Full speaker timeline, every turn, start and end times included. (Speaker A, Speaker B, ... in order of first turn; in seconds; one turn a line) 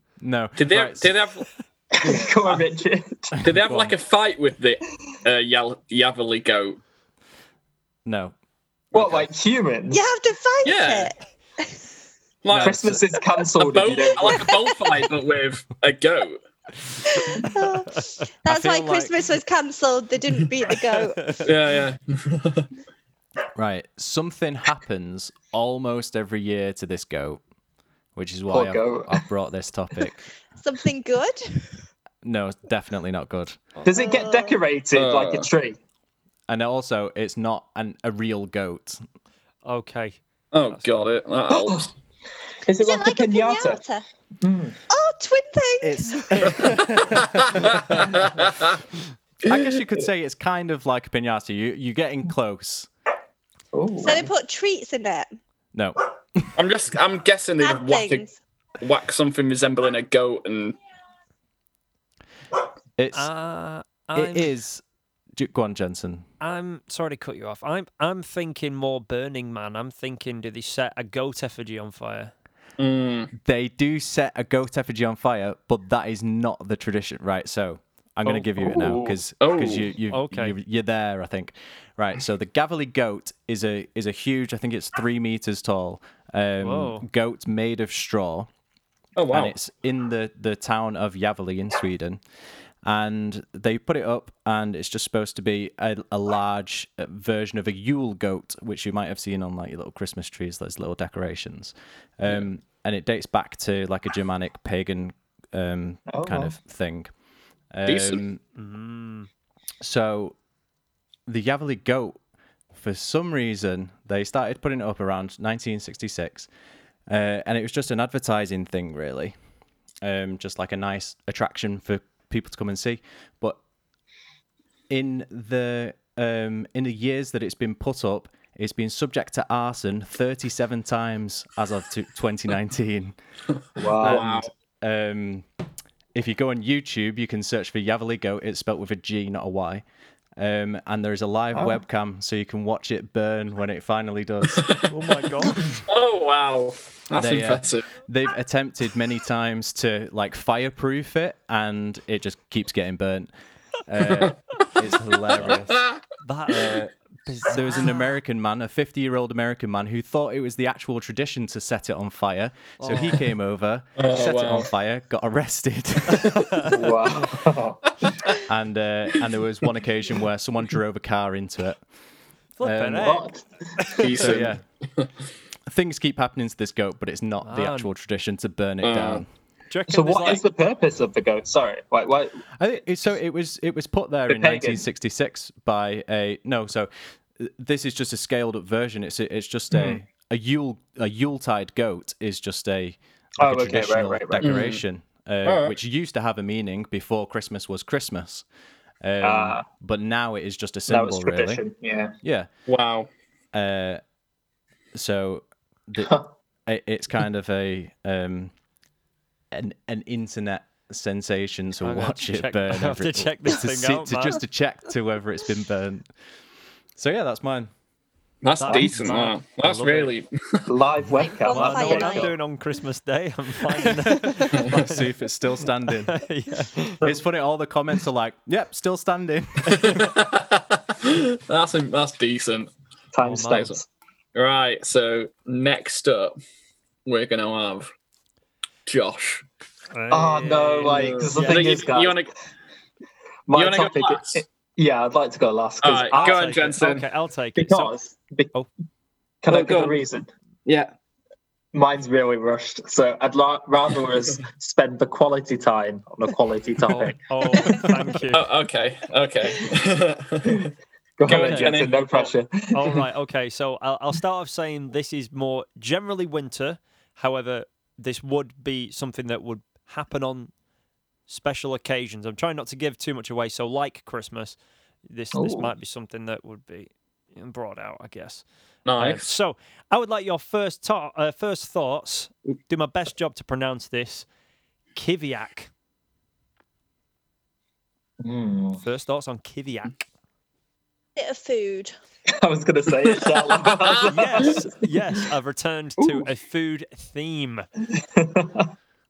Speaker A: 0.2-1.1
Speaker B: 0.6-1.5
Speaker C: 1.9-3.4
Speaker A: 3.4-3.9
Speaker B: 3.4-6.8
Speaker A: 8.1-8.3
Speaker C: 8.9-10.1
Speaker A: 8.9-9.2
Speaker D: 9.9-11.8
Speaker B: 10.6-11.1
Speaker B: 12.4-13.0
Speaker C: 12.6-14.5
Speaker B: 13.6-16.4
Speaker D: 14.5-14.9
Speaker D: 17.1-21.4
Speaker A: 18.5-19.1
Speaker E: 20.9-21.5
Speaker B: 21.4-22.7
Speaker A: 23.6-27.4
Speaker A: 28.2-30.2
Speaker C: 28.5-29.2
Speaker D: 30.6-31.7
Speaker A: 32.2-33.6
Speaker C: 33.8-35.8
Speaker D: 33.9-34.6
Speaker B: 34.9-35.5
Speaker A: 36.5-39.0
Speaker E: 39.6-41.1
Speaker B: 40.5-41.9
Speaker C: 41.5-41.9
Speaker C: 42.6-43.8
Speaker D: 42.8-44.0
Speaker C: 44.4-44.8
Speaker D: 44.9-46.6
Speaker A: 45.8-48.0
Speaker B: 47.6-48.8
Speaker A: 49.4-52.9
Speaker C: 53.7-54.3
Speaker D: 54.0-55.3
Speaker A: 55.7-56.5
Speaker B: 56.5-58.2
Speaker D: 57.6-58.4
Speaker B: 58.8-60.8
Speaker A: 63.0-63.3
Speaker E: 63.1-64.5
Speaker A: 64.1-64.8
Speaker A: 65.3-66.3
Speaker E: 66.4-72.3
Speaker B: 72.8-73.3
Speaker A: 73.4-88.5
Speaker B: 78.7-79.9
Speaker E: 80.1-80.6
Speaker E: 86.6-87.0
Speaker B: 89.2-89.5
Speaker A: 89.3-92.2
Speaker A: 92.8-107.1
Speaker C: 106.1-106.6
Speaker A: 107.7-108.4
Speaker B: 107.9-108.2
Speaker E: 108.5-109.3
Speaker A: 109.8-110.4
Speaker A: 111.3-112.2
Speaker A: 112.7-116.5
Speaker A: 117.1-119.3
Speaker A: 120.0-123.6
Speaker A: 124.9-133.2
Speaker C: 133.8-134.4
Speaker B: 134.0-134.5
Speaker A: 134.0-135.5
Speaker A: 136.1-139.8
Speaker A: 140.4-144.7
Speaker C: 141.5-141.8
Speaker E: 144.9-145.8
Speaker B: 145.7-147.9
Speaker A: 147.2-153.3
Speaker A: 153.8-155.9
Speaker B: 154.1-154.3
Speaker B: 155.4-156.0
Speaker E: 156.2-158.0
Speaker A: 157.5-166.4
Speaker E: 162.8-163.2
Speaker B: 164.0-164.7
Speaker E: 166.1-166.8
Speaker C: 166.6-167.8
Speaker A: 168.4-171.8
Speaker E: 172.6-174.2
Speaker A: 172.6-173.1
Speaker C: 173.0-174.0
Speaker B: 174.0-175.1
Speaker A: 174.2-174.6
Speaker A: 175.7-179.3
Speaker E: 177.4-177.9
Speaker B: 178.8-179.2
Speaker E: 179.7-180.4
Speaker C: 179.9-182.4
Speaker A: 182.6-198.4
Speaker C: 184.3-184.8
Speaker C: 189.7-190.0
Speaker C: 193.4-194.5
Speaker B: 194.4-194.8
Speaker B: 195.4-195.8
Speaker A: 199.0-201.6
Speaker C: 199.2-199.7
Speaker C: 200.9-202.2
Speaker A: 202.2-202.5
Speaker B: 202.7-203.1
Speaker A: 203.5-204.0
Speaker A: 204.9-208.5
Speaker C: 206.0-206.3
Speaker A: 209.5-216.1
Speaker E: 211.8-214.4
Speaker A: 217.0-217.7
Speaker B: 218.4-220.7
Speaker E: 218.6-220.1
Speaker C: 220.7-222.3
Speaker D: 221.2-222.3
Speaker E: 221.5-225.1
Speaker A: 224.4-226.2
Speaker E: 226.0-227.1
Speaker A: 227.0-230.1
Speaker B: 229.7-232.7
Speaker C: 233.1-233.9
Speaker E: 233.2-233.8
Speaker B: 234.3-236.3
Speaker B: 237.1-237.9
Speaker B: 238.9-239.4
Speaker E: 239.9-241.8
Speaker C: 240.1-242.2
Speaker B: 240.8-242.3
Speaker C: 243.5-246.5
Speaker B: 243.5-244.4
Speaker B: 245.8-247.1
Speaker E: 246.1-247.9
Speaker C: 247.6-248.5
Speaker C: 249.4-250.3
Speaker B: 249.5-250.0
Speaker B: 250.7-250.9
Speaker C: 251.7-258.0
Speaker E: 256.9-258.5
Speaker B: 258.3-260.7
Speaker C: 261.2-263.1
Speaker B: 261.3-262.3
Speaker E: 261.3-270.5
Speaker E: 271.3-278.4
Speaker C: 275.3-275.7
Speaker B: 278.9-279.3
Speaker E: 279.0-284.3
Speaker E: 284.9-285.7
Speaker C: 288.2-288.8
Speaker E: 288.8-289.9
Speaker D: 291.2-291.9
Speaker C: 292.3-294.9
Speaker B: 293.2-294.0
Speaker E: 294.0-297.7
Speaker C: 297.9-298.7